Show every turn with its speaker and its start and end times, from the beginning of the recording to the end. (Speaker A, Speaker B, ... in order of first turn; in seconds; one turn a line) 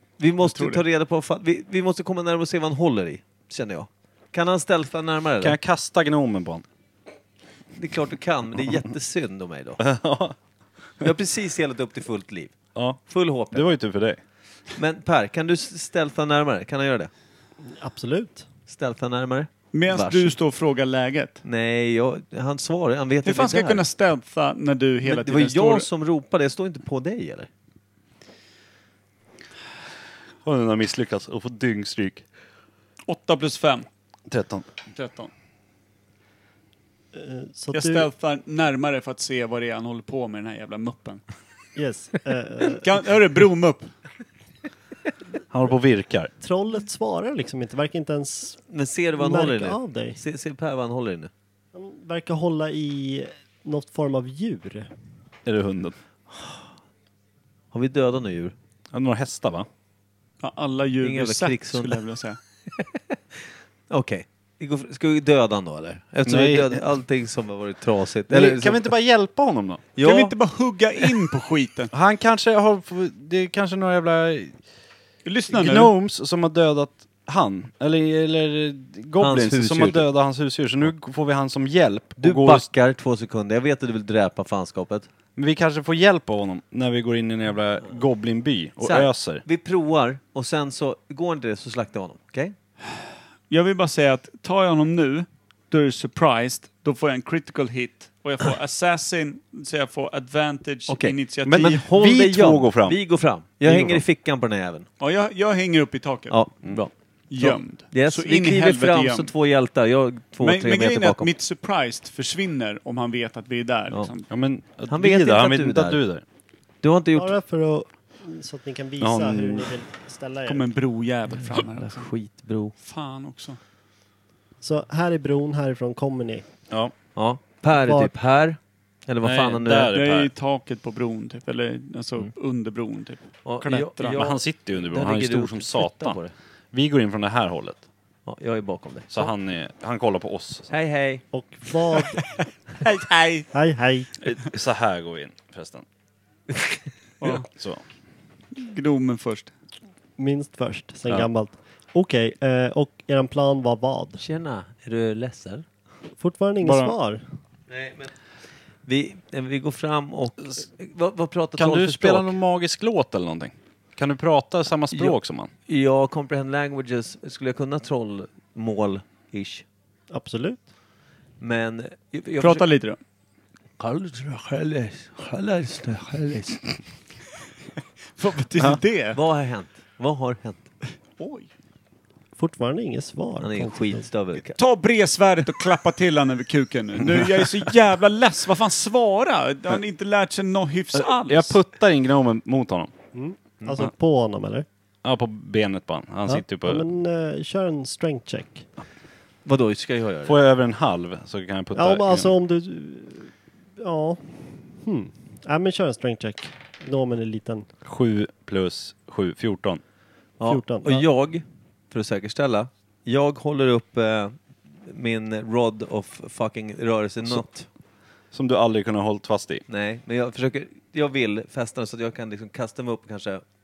Speaker A: 0.2-5.6
Speaker B: 0.4-0.8
Speaker C: 5.4-6.6
Speaker A: 7.8-9.8
Speaker C: 9.8-10.3
Speaker A: 11.0-12.5
Speaker C: 12.7-14.2
Speaker A: 13.1-13.7
Speaker A: 14.7-17.1
Speaker D: 17.6-18.4
Speaker A: 18.7-20.4
Speaker B: 19.7-21.4
Speaker A: 21.4-23.8
Speaker B: 23.2-25.9
Speaker A: 25.0-27.5
Speaker C: 30.4-32.2
Speaker B: 33.1-33.9
Speaker C: 34.3-34.7
Speaker B: 34.9-35.3
Speaker D: 37.1-38.1
Speaker B: 37.7-41.2
Speaker D: 41.8-42.9
Speaker B: 42.7-43.9
Speaker C: 45.5-46.3
Speaker D: 46.4-48.6
Speaker A: 48.7-51.3
Speaker D: 49.2-50.2
Speaker D: 51.7-54.9
Speaker C: 55.4-55.9
Speaker A: 57.7-58.5
Speaker C: 58.9-59.7
Speaker B: 60.4-62.4
Speaker A: 61.0-62.0
Speaker A: 62.7-68.9
Speaker C: 66.2-66.8
Speaker C: 68.3-69.8
Speaker A: 70.0-70.3
Speaker B: 70.0-71.9
Speaker C: 71.9-74.6
Speaker B: 75.2-75.9
Speaker C: 75.5-82.7
Speaker A: 79.2-80.0
Speaker A: 82.2-85.1
Speaker C: 85.3-89.4
Speaker A: 88.8-92.5
Speaker B: 93.5-101.8
Speaker A: 100.9-104.9
Speaker C: 101.4-103.0
Speaker B: 103.7-104.0
Speaker B: 105.0-106.4
Speaker A: 106.3-111.3
Speaker B: 107.3-109.3
Speaker B: 110.4-114.3
Speaker C: 114.3-116.2
Speaker A: 114.9-116.0
Speaker A: 116.8-117.3
Speaker D: 117.2-120.7
Speaker C: 119.0-119.7
Speaker B: 120.4-122.1
Speaker A: 121.4-122.7
Speaker B: 122.8-123.6
Speaker D: 124.6-126.4
Speaker A: 127.1-129.9
Speaker D: 127.7-128.1
Speaker C: 129.2-130.3
Speaker B: 129.8-134.2
Speaker A: 133.4-136.3
Speaker C: 134.1-136.2
Speaker C: 136.7-137.8
Speaker A: 138.2-139.3
Speaker C: 139.1-140.7
Speaker A: 140.7-141.2
Speaker D: 141.3-142.2
Speaker B: 142.8-143.5
Speaker D: 143.5-144.1
Speaker C: 144.2-145.8
Speaker A: 146.5-146.8
Speaker B: 147.2-147.5
Speaker C: 147.3-147.8
Speaker B: 148.5-149.5
Speaker D: 150.2-154.2
Speaker A: 154.2-155.6
Speaker D: 156.2-157.2
Speaker C: 156.6-156.9
Speaker A: 157.7-158.1
Speaker A: 158.8-162.3
Speaker C: 161.6-165.5
Speaker A: 165.7-169.6
Speaker D: 170.1-170.6
Speaker A: 171.4-172.6
Speaker B: 172.4-173.0
Speaker A: 173.8-176.7
Speaker B: 178.2-179.2
Speaker A: 179.1-180.7
Speaker B: 181.2-181.5
Speaker D: 182.4-184.0
Speaker A: 183.4-184.6
Speaker B: 184.5-191.6
Speaker C: 190.9-192.9
Speaker D: 193.1-194.7
Speaker C: 195.0-196.8
Speaker D: 196.3-198.7
Speaker A: 199.4-200.3
Speaker C: 200.2-202.3
Speaker D: 201.7-207.7
Speaker C: 207.8-209.8
Speaker A: 210.4-217.7
Speaker D: 210.4-211.0
Speaker C: 218.3-219.6
Speaker A: 219.7-223.4